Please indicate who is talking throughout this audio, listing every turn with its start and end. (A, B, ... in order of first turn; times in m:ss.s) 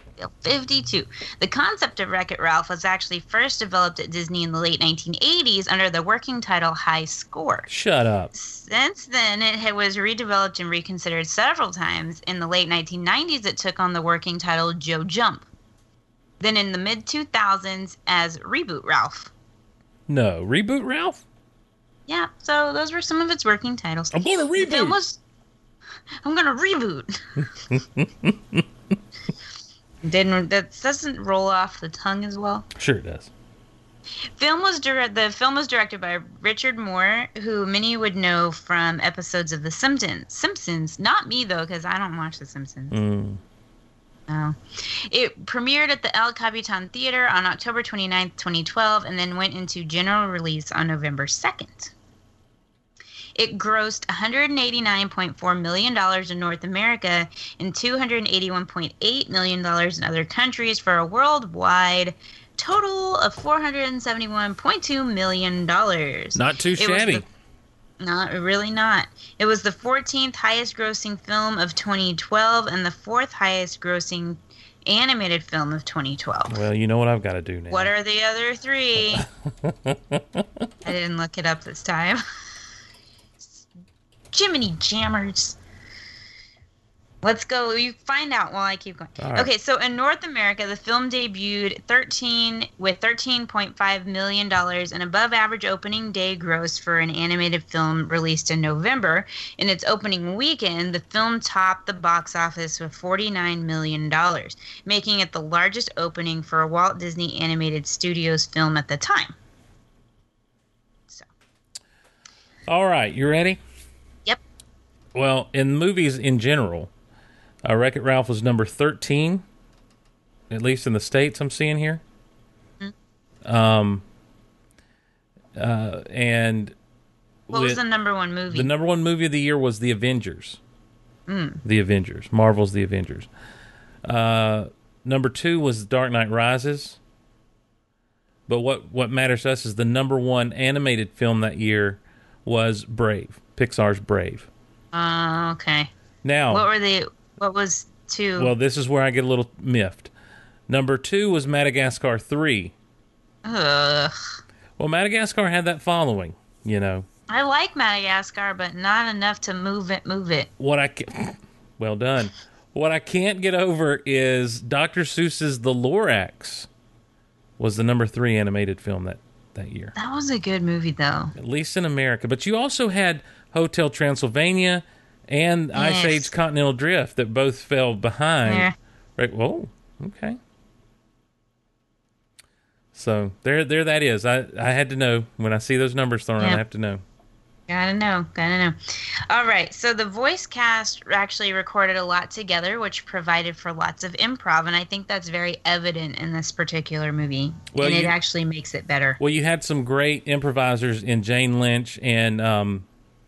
0:00.2-0:07.7 A
0:07.7-0:08.3 B
0:08.3-0:15.5 A
0:16.4-0:19.3 A
0:20.1-0:21.2 B
0:22.1-0:25.2 A
0:24.1-0:25.0 B
0:26.2-0:27.2 A
0:27.7-0:28.6 B
0:30.0-0:32.7 A
0:32.8-0:33.3 B
0:34.4-0:43.0 A
0:42.9-0:43.4 B
0:44.3-0:51.9 A
0:53.4-1:07.2 A
1:06.3-1:07.2 B
1:08.0-1:16.6 A
1:16.5-1:17.9 B
1:17.7-1:19.2 A
1:19.6-1:20.4 B
1:20.8-1:22.2 A
1:24.3-1:25.6 A
1:27.2-1:49.4 A
1:29.2-1:29.5 B
1:52.7-1:53.6 B
1:55.1-1:56.9 B
1:57.6-1:59.4 B
2:00.5-2:02.0 B
2:03.4-2:04.0 B
2:05.6-2:06.8 B
2:07.5-2:07.8 B
2:07.5-2:08.7 A
2:08.5-2:10.6 B
2:11.3-2:11.6 A
2:11.6-2:13.3 B
2:14.0-2:17.0 B
2:18.5-2:24.5 B
2:24.9-2:25.9 A
2:26.2-2:26.7 B
2:26.5-2:28.5 A
2:28.4-2:30.1 B
2:30.7-2:32.7 B
2:33.4-2:34.2 A
2:34.8-2:37.1 B
2:37.3-2:40.5 A
2:40.6-2:46.7 B
2:47.6-2:49.9 B
2:50.0-2:51.3 A
2:51.4-3:00.4 B
2:55.7-2:56.3 A
2:58.5-2:58.7 A
3:02.9-3:07.0 B
3:07.7-3:19.2 A
3:17.7-3:18.2 B
3:19.2-3:22.8 B